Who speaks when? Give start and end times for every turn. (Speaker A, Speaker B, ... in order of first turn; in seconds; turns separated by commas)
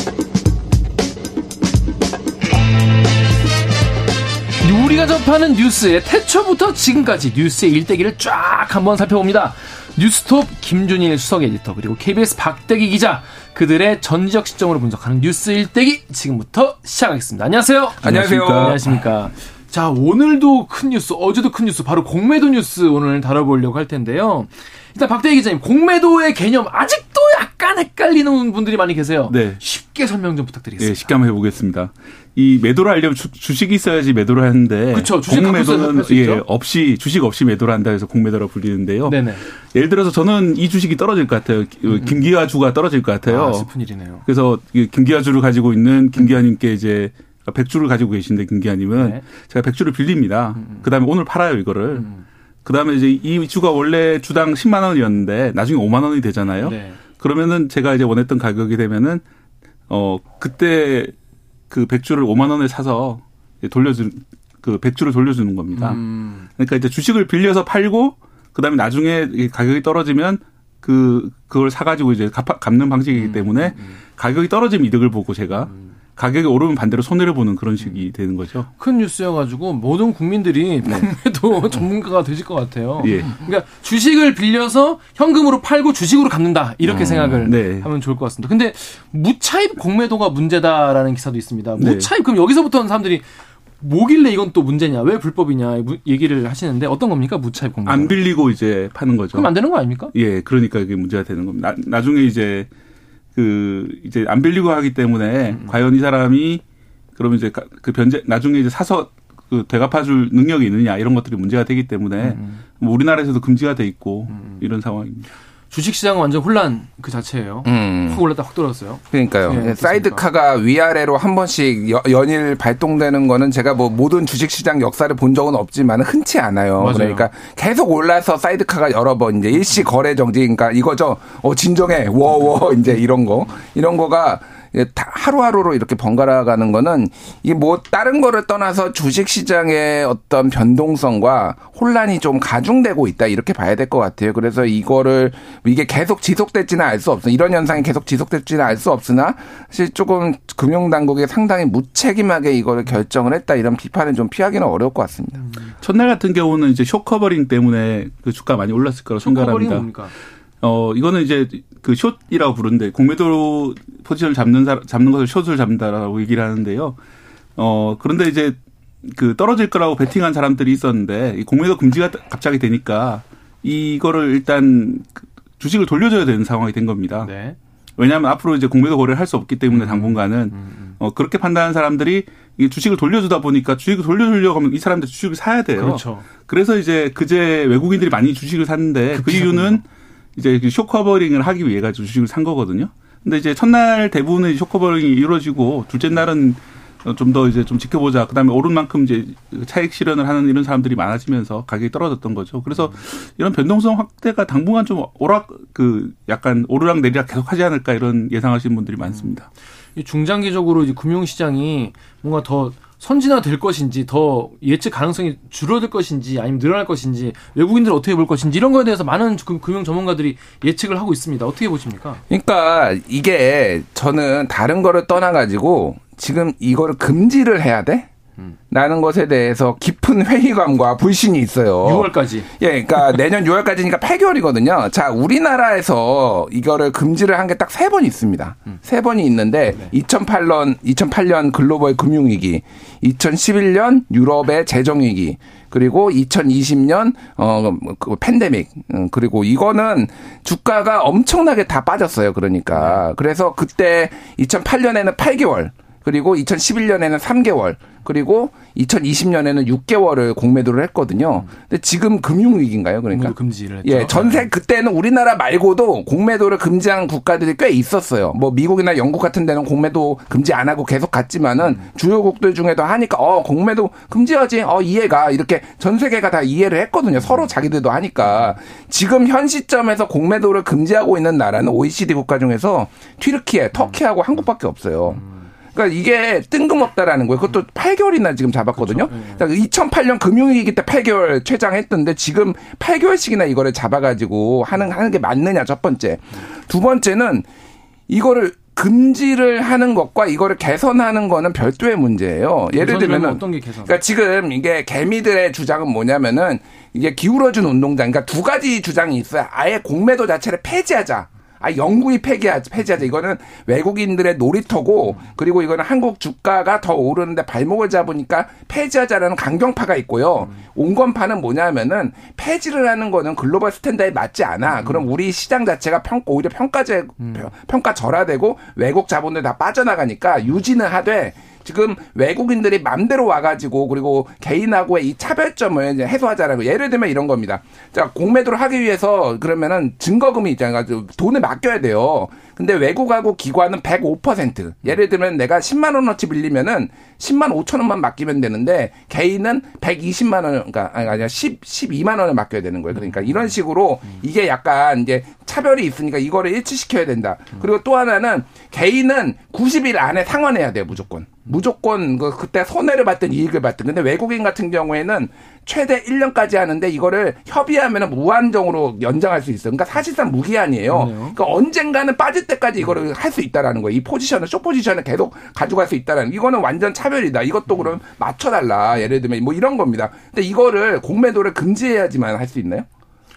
Speaker A: 4.6-31.2, Speaker B: 18.0-18.8, Speaker C: 18.0-18.8, Speaker B: 29.3-29.6, Speaker B: 30.8-43.7, Speaker A: 34.9-36.4, Speaker A: 39.0-39.4, Speaker A: 41.9-42.2, Speaker A: 43.2-44.2, Speaker B: 44.2-52.1, Speaker A: 49.0-49.2, Speaker B: 52.6-59.2, Speaker A: 56.6-57.0, Speaker B: 59.9-61.1, Speaker B: 61.7-66.0, Speaker A: 65.7-66.5, Speaker B: 66.5-78.7, Speaker A: 73.3-73.7, Speaker A: 78.8-93.2, Speaker B: 83.0-83.3, Speaker B: 86.8-87.9, Speaker B: 91.8-92.1, Speaker A: 93.8-98.2, Speaker B: 97.8-99.5, Speaker A: 99.3-100.1, Speaker B: 100.1-102.7, Speaker B: 103.3-106.6, Speaker B: 107.2-115.3, Speaker A: 112.2-112.5, Speaker A: 115.7-120.2, Speaker C: 117.6-118.2, Speaker C: 119.1-155.5, Speaker A: 126.8-127.3, Speaker B: 155.8-159.9, Speaker A: 159.2-160.1, Speaker B: 160.6-166.9, Speaker B: 167.6-177.3, Speaker A: 177.2-177.6, Speaker B: 178.0-189.8, Speaker A: 179.7-180.9, Speaker A: 185.7-186.3, Speaker A: 189.1-189.8, Speaker B: 190.3-209.5, Speaker A: 209.9-222.2, Speaker C: 222.3-228.1, Speaker C: 228.7-297.4, Speaker A: 231.8-232.5, Speaker A: 252.8-253.0, Speaker A: 263.1-264.5, Speaker A: 288.8-289.4, Speaker C: 298.1-382.9, Speaker A: 302.7-304.0, Speaker A: 370.9-371.4